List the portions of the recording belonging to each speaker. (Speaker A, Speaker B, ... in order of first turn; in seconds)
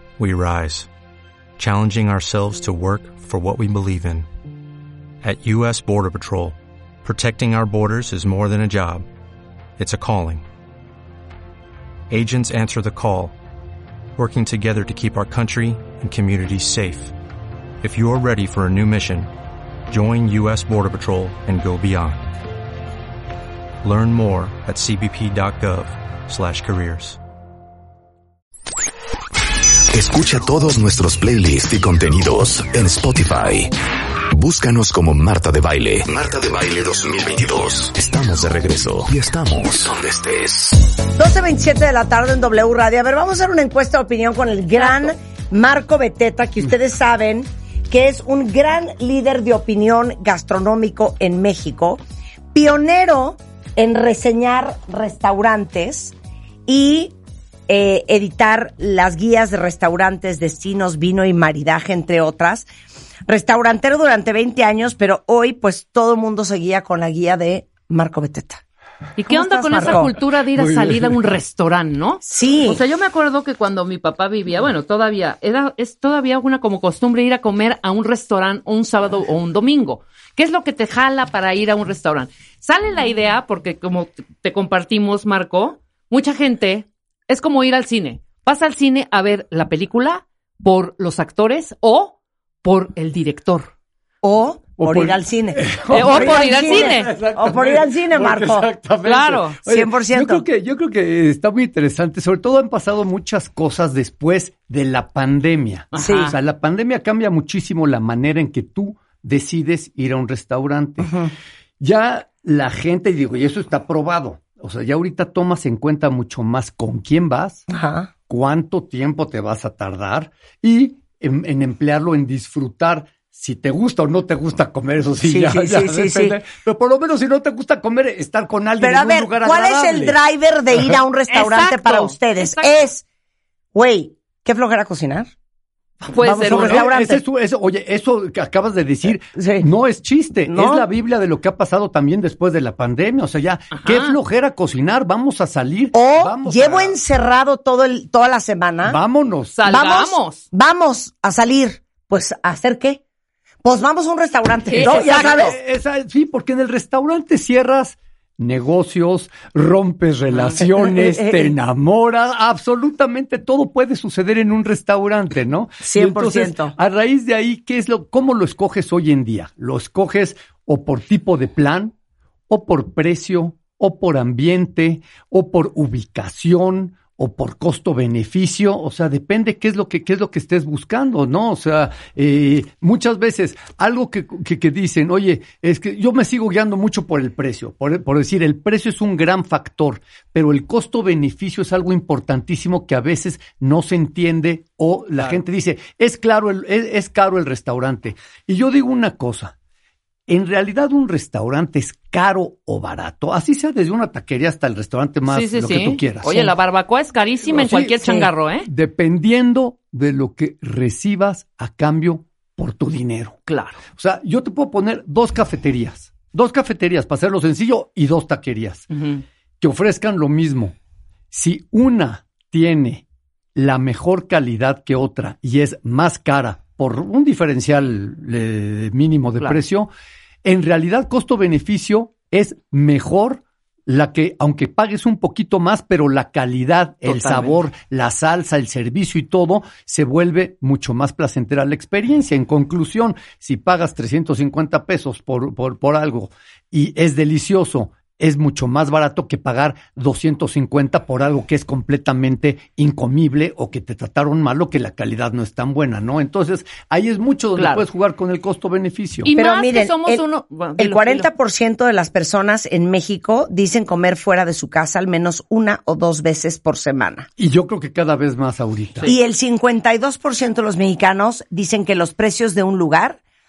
Speaker A: 0.2-0.9, 1.6-4.2, 5.2-9.0, 9.8-10.4, 12.1-13.3, 14.2-17.1, 17.8-19.3, 19.9-22.2, 23.8-27.2
Speaker B: 29.9-33.7, 34.3-40.9
Speaker C: 41.0-52.0, 52.5-56.1, 56.6-57.1, 57.7-62.7, 63.3-68.6, 69.3-70.2, 72.2-72.8, 94.2-98.7, 99.7-100.4, 105.9-106.3, 111.0-111.3, 117.7-118.1, 125.2-126.3, 128.8-133.0, 133.7-135.3, 136.2-137.2, 139.3-139.7, 140.5-140.9, 145.9-149.0, 149.7-153.0, 153.6-155.6, 160.6-161.5, 165.8-166.7, 208.0-208.3, 259.3-260.2, 260.8-267.3, 269.0-273.2
Speaker D: 69.2-93.7, 95.9-97.1, 99.0-99.6, 105.9-106.3, 131.3-132.8, 136.1-136.9, 143.7-144.2, 149.6-150.4, 154.7-155.5, 160.3-160.6, 205.2-208.7, 213.5-213.8, 218.9-219.2, 237.0-237.6, 257.6-257.8, 259.2-261.3
Speaker E: 70.5-71.2, 94.8-111.2, 111.8-117.7, 118.3-130.2, 136.0-147.0, 148.8-149.6, 154.8-171.9, 172.5-199.5, 200.3-206.5, 207.4-208.1, 208.6-213.3, 213.9-218.9, 219.6-220.7, 221.3-223.0, 223.5-229.9, 230.4-259.3, 267.4-269.1